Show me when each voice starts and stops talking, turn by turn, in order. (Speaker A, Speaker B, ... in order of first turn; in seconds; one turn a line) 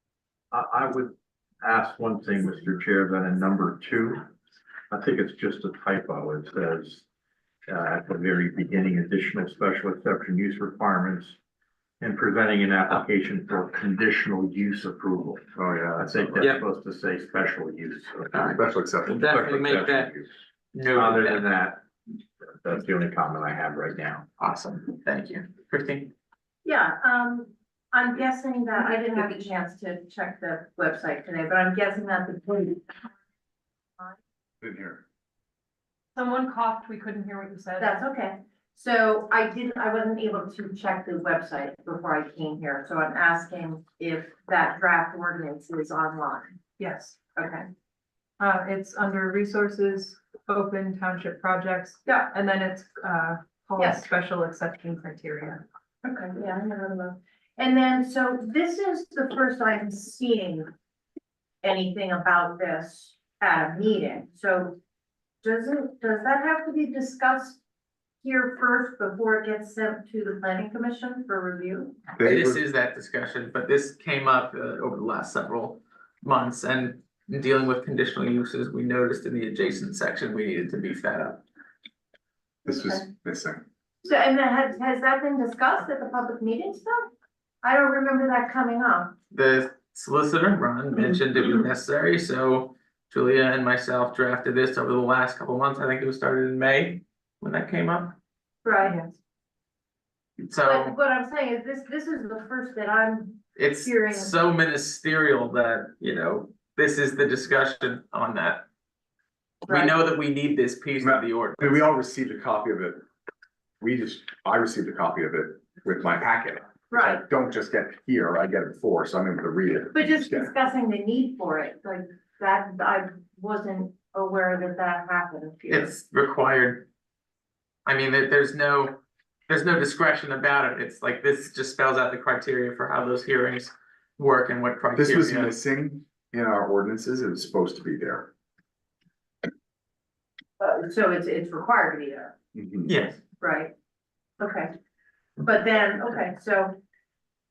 Speaker A: 0.5-4.3
Speaker A: 4.9-7.0
Speaker A: 7.7-11.4
Speaker A: 12.0-18.6
Speaker B: 15.6-16.5
Speaker C: 18.3-20.1
Speaker B: 18.5-19.3
Speaker A: 19.2-20.3
Speaker C: 20.7-21.5
Speaker A: 20.9-21.8
Speaker A: 22.6-24.2
Speaker C: 24.4-26.1
Speaker D: 26.6-33.1
Speaker B: 34.6-35.0
Speaker E: 36.1-38.0
Speaker D: 37.8-46.6
Speaker E: 46.8-47.2
Speaker D: 47.4-47.7
Speaker E: 48.4-55.6
Speaker D: 56.0-60.7
Speaker D: 61.6-64.8
Speaker D: 65.4-67.6
Speaker D: 68.2-72.0
Speaker B: 72.2-72.6
Speaker C: 72.2-81.4
Speaker B: 82.7-83.6
Speaker D: 82.7-83.0
Speaker D: 84.0-87.1
Speaker D: 87.6-89.2
Speaker C: 89.3-98.2
Speaker D: 98.6-99.0
Speaker E: 98.8-99.1
Speaker C: 100.5-101.0
Speaker D: 100.6-104.4
Speaker C: 103.6-108.7
Speaker C: 109.6-111.9
Speaker D: 109.7-110.0
Speaker B: 111.0-113.0
Speaker B: 113.8-120.5
Speaker D: 116.9-117.2
Speaker D: 119.9-125.9
Speaker C: 125.7-126.9
Speaker C: 127.8-135.6
Speaker B: 134.9-138.3
Speaker D: 140.6-142.3
Speaker B: 142.6-143.0
Speaker C: 142.9-143.2
Speaker D: 143.4-143.7
Speaker D: 144.4-144.7
Speaker D: 145.4-146.8